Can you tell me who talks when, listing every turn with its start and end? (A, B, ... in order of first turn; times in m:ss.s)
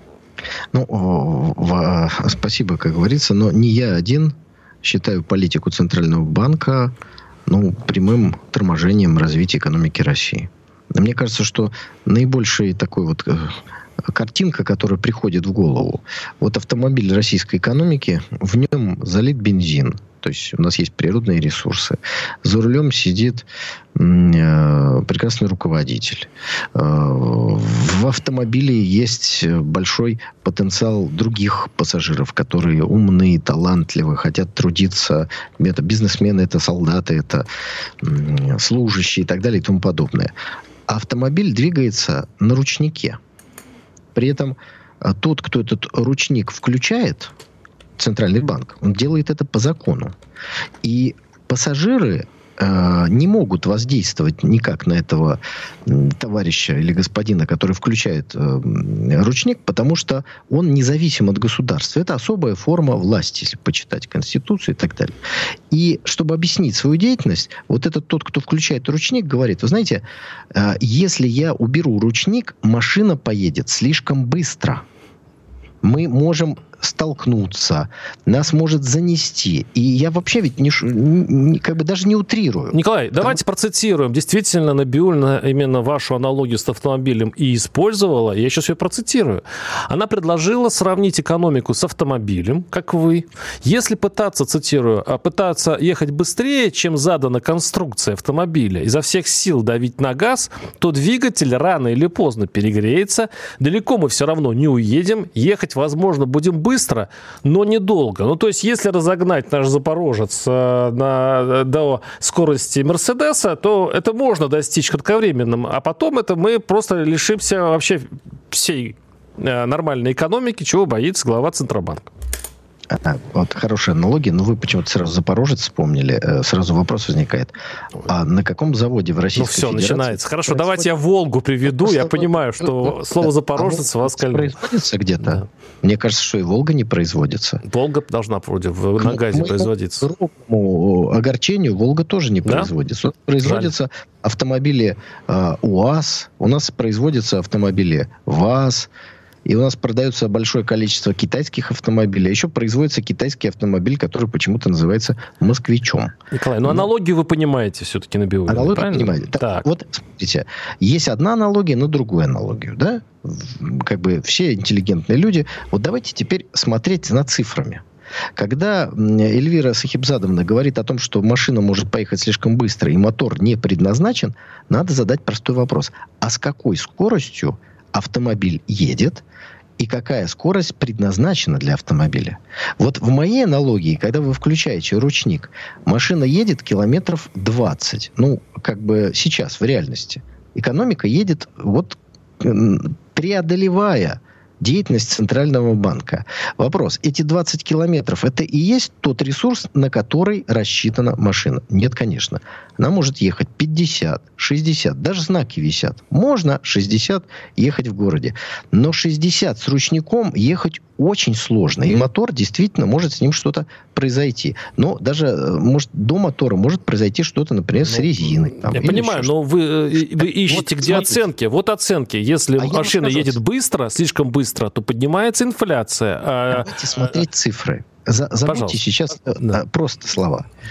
0:00.7-0:06.9 A
0:07.5-0:37.5 A
0:38.0-0:40.3 A
0:40.9-0:43.2 A
0:44.2-0:47.3 A
0:48.0-0:50.1 A
0:50.8-1:14.8 A
1:15.8-1:23.4 A
1:22.7-2:02.1 B
2:02.9-2:07.5 A
2:08.1-2:10.9 A
2:09.4-2:14.6 B
2:11.7-2:17.6 A
2:17.6-2:20.1 B
2:19.0-2:28.9 A
2:22.4-2:22.7 B
2:23.4-2:23.7 B
2:29.4-2:36.9 A
2:36.3-2:39.7 B
2:38.5-2:47.8 A
2:48.4-2:59.2 A
2:59.8-3:39.3 A
3:37.8-3:47.1 B
3:40.2-3:41.2 A
3:42.6-3:43.4 A
3:46.5-3:50.5 A
3:48.5-3:48.8 B